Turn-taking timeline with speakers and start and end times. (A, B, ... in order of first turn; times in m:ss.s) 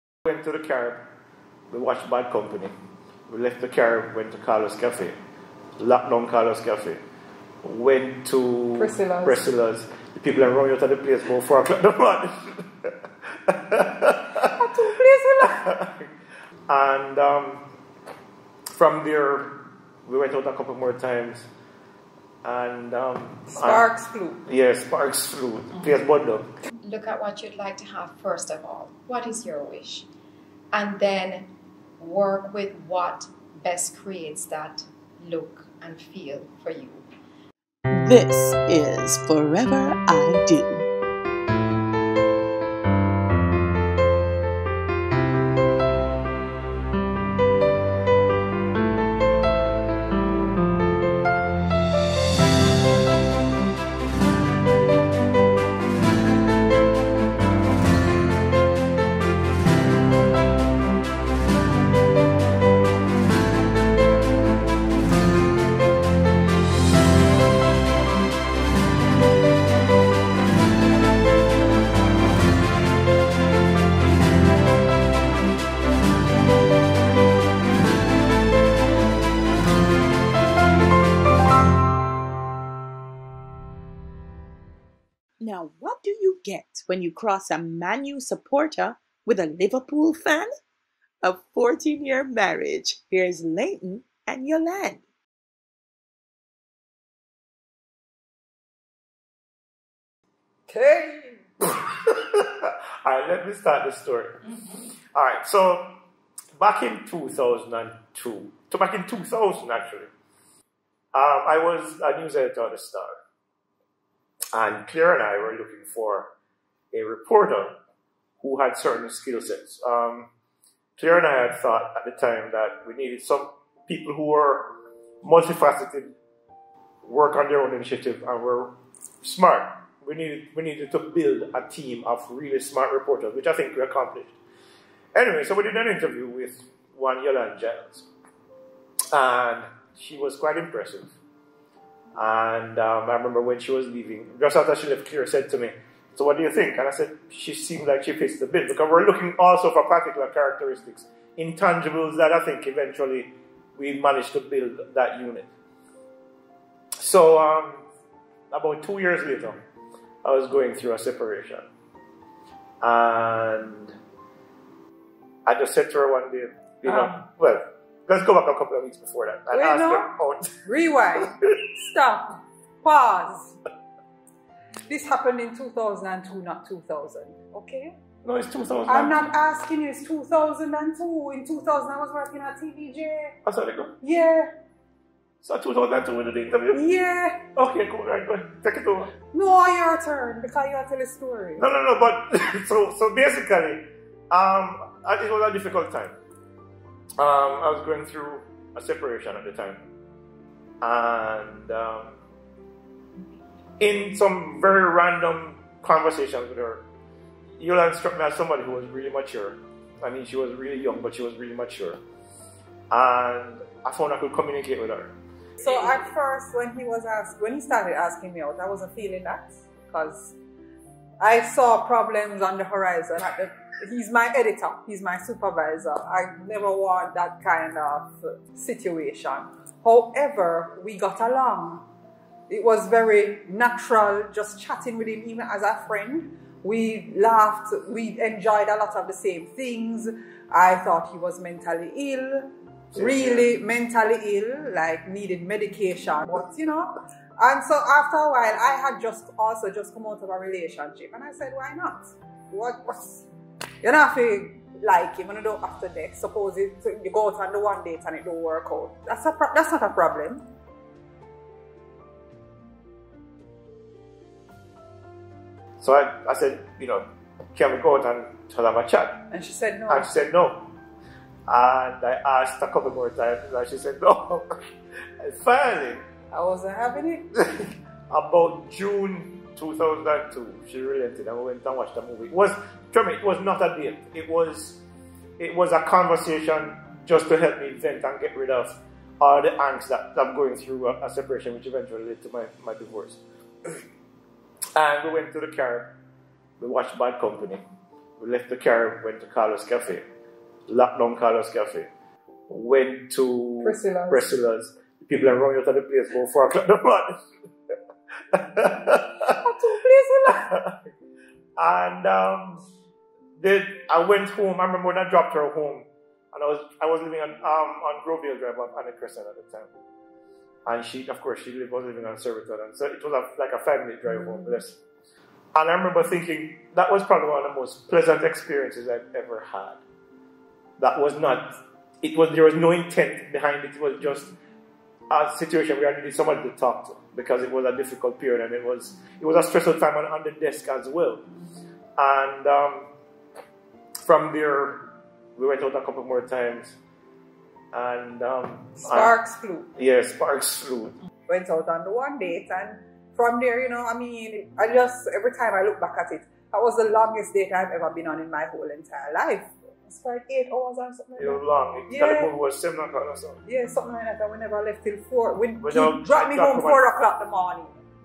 0:00.2-0:01.0 A
0:01.7-0:02.7 A
0:03.3-0:05.2 A
0:05.8-0:07.0 A
0:07.6-0:14.6 A
0:08.8-0:09.4 B
0:14.4-0:15.7 B
0:15.4-0:16.1 A
0:16.7-0:17.6 A
0:18.7-0:21.5 A
0:22.4-0:23.9 A
0:23.5-0:24.4 B
0:24.4-0:26.5 A
0:26.8-0:30.1 C
0:30.7-0:37.0 C
0:37.9-0:40.8 D
1:25.4-1:30.5 D
1:31.2-1:35.0 D
1:40.7-1:41.4 B
1:41.7-1:46.0 A
1:46.6-1:50.1 A
1:51.1-1:53.1 A
1:54.5-1:56.3 A
1:56.9-1:57.8 A
1:58.4-2:00.3 A
2:01.0-2:06.1 A
2:07.0-2:14.4 A
2:15.1-2:18.1 A
2:19.1-2:21.2 A
2:22.2-2:35.5 A
2:37.0-2:37.8 A
2:38.5-2:39.6 A
2:40.2-2:41.6 A
2:42.8-2:44.0 A
2:45.4-2:50.5 A
2:46.8-2:47.2 B
2:49.5-2:50.1 B
2:50.6-2:53.6 B
2:54.9-2:58.0 B
2:58.2-2:59.2 A
2:58.9-3:03.4 B
3:03.4-3:03.9 A
3:04.0-3:04.5 B
3:05.4-3:06.8 A
3:06.7-3:07.4 B
3:07.5-3:09.1 A
3:09.3-3:11.6 B
3:11.6-3:16.2 A
3:17.2-3:19.8 A
3:20.8-3:22.2 A
3:23.8-3:26.8 A
3:27.6-3:32.0 A
3:32.9-3:35.9 A
3:35.6-3:40.4 B
3:41.2-3:51.9 B
3:52.5-4:13.3 B
4:02.9-4:03.5 A
4:13.8-4:20.4 B
4:25.8-4:29.2 A
4:29.3-4:30.1 B
4:29.9-4:30.7 A
4:31.5-4:34.6 A
4:35.2-4:36.1 A
4:36.3-4:37.3 B
4:37.3-4:44.8 A
4:45.4-4:53.8 A
4:54.8-4:55.9 A
4:56.6-4:57.6 A
4:58.2-5:00.0 A
5:00.7-5:01.9 A
5:02.5-5:07.2 A
5:03.6-5:04.3 B
5:08.3-5:09.4 A
5:09.2-5:10.5 B
5:10.3-5:10.9 A
5:11.6-5:12.6 A
5:13.4-5:19.7 A
5:20.6-5:24.8 A
5:25.5-5:29.8 A
5:30.8-5:34.3 A
5:35.1-5:41.2 A
5:42.0-5:42.9 A
5:44.0-5:46.8 A
5:47.7-5:49.1 A
5:48.8-5:49.7 B
5:49.8-5:51.0 A
5:51.3-6:02.3 B
6:01.2-6:03.4 A
6:03.4-6:07.8 B
6:05.6-6:06.8 A